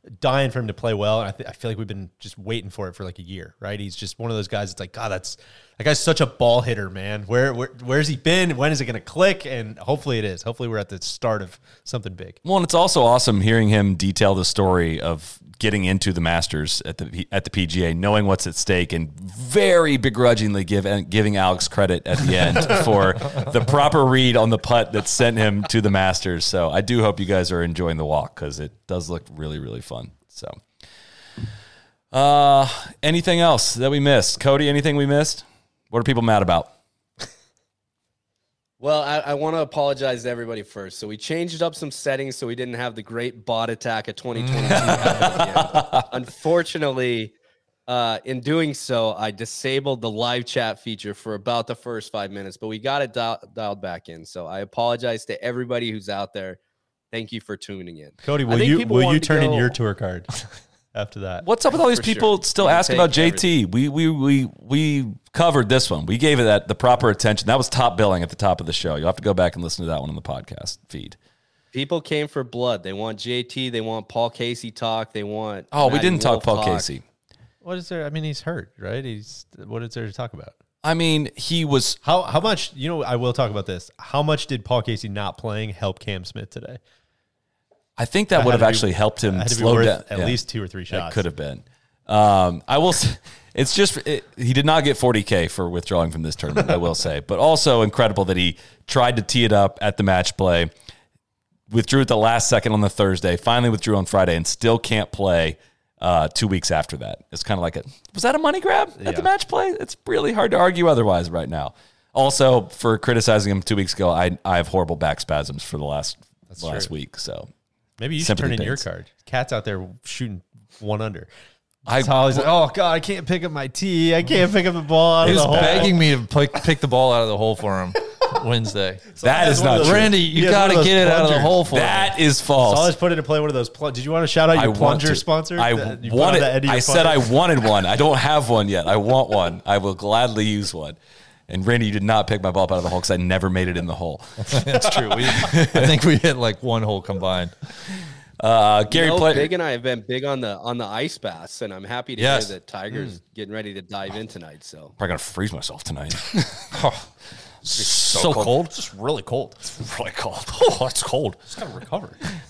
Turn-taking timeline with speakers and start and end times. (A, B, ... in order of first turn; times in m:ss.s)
0:00.2-0:12.4 A
0:12.4-0:30.6 B
0:32.1-0:36.7 B
0:38.8-0:47.3 C
0:44.5-0:45.2 D
0:45.0-0:46.1 B
0:47.9-0:56.6 C
0:57.1-0:59.8 C
0:58.2-1:00.4 A
1:00.9-1:01.4 A
1:01.4-1:11.2 B
1:01.8-1:03.5 C
1:11.7-1:16.9 C
1:15.7-1:17.0 B
1:17.6-1:20.5 A
1:20.8-1:22.0 B
1:22.0-1:26.8 A
1:28.0-1:40.7 B
1:28.4-1:31.2 A
1:41.7-1:57.5 B
1:49.0-1:49.3 A
1:56.5-1:56.9 A
1:58.0-2:01.3 A
1:58.2-1:58.8 B
2:01.9-2:02.5 B
2:01.9-2:06.0 A
2:05.2-2:12.1 D
2:05.3-2:05.9 B
2:09.1-2:11.6 A
2:09.2-2:10.2 B
2:11.7-2:12.9 B
2:12.6-2:17.3 A
2:14.5-2:21.0 B
2:21.5-2:26.0 B
2:24.4-2:27.7 D
2:28.4-2:29.5 B
2:28.9-2:34.9 C
2:32.2-2:32.6 D
2:32.9-2:33.2 A
2:35.0-2:36.9 B
2:37.6-2:38.7 B
2:37.8-2:39.7 A
2:38.0-2:38.5 D
2:39.7-2:41.4 B
2:41.5-2:42.2 A